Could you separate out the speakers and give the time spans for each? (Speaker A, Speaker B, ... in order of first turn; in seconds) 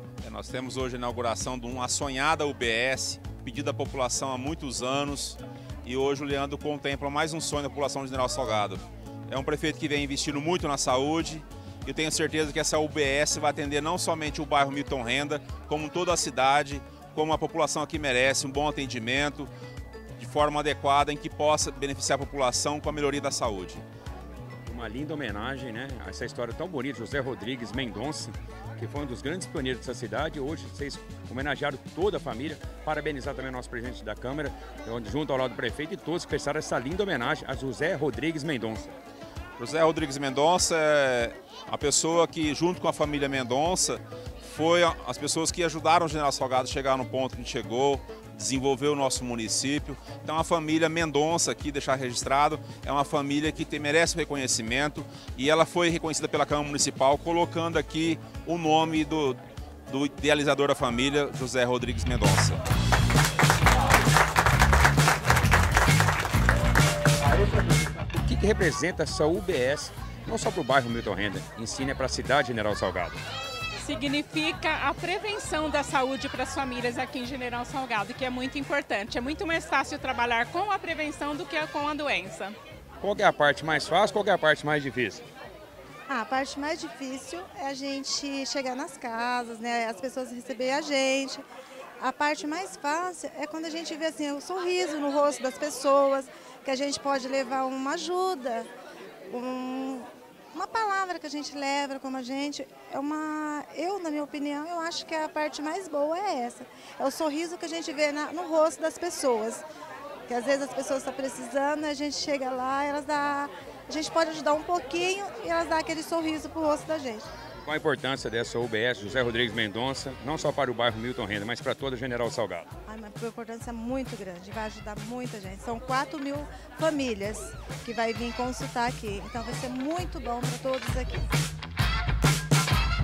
Speaker A: 0.2-19.5, 20.2-23.8, 39.6-62.6
Speaker B: 24.6-39.0, 68.1-73.2, 83.0-85.2, 117.6-122.7
Speaker C: 67.5-67.8, 73.8-82.5
Speaker D: 86.1-91.4, 92.0-98.7, 99.3-109.6, 110.3-117.3, 122.8-131.3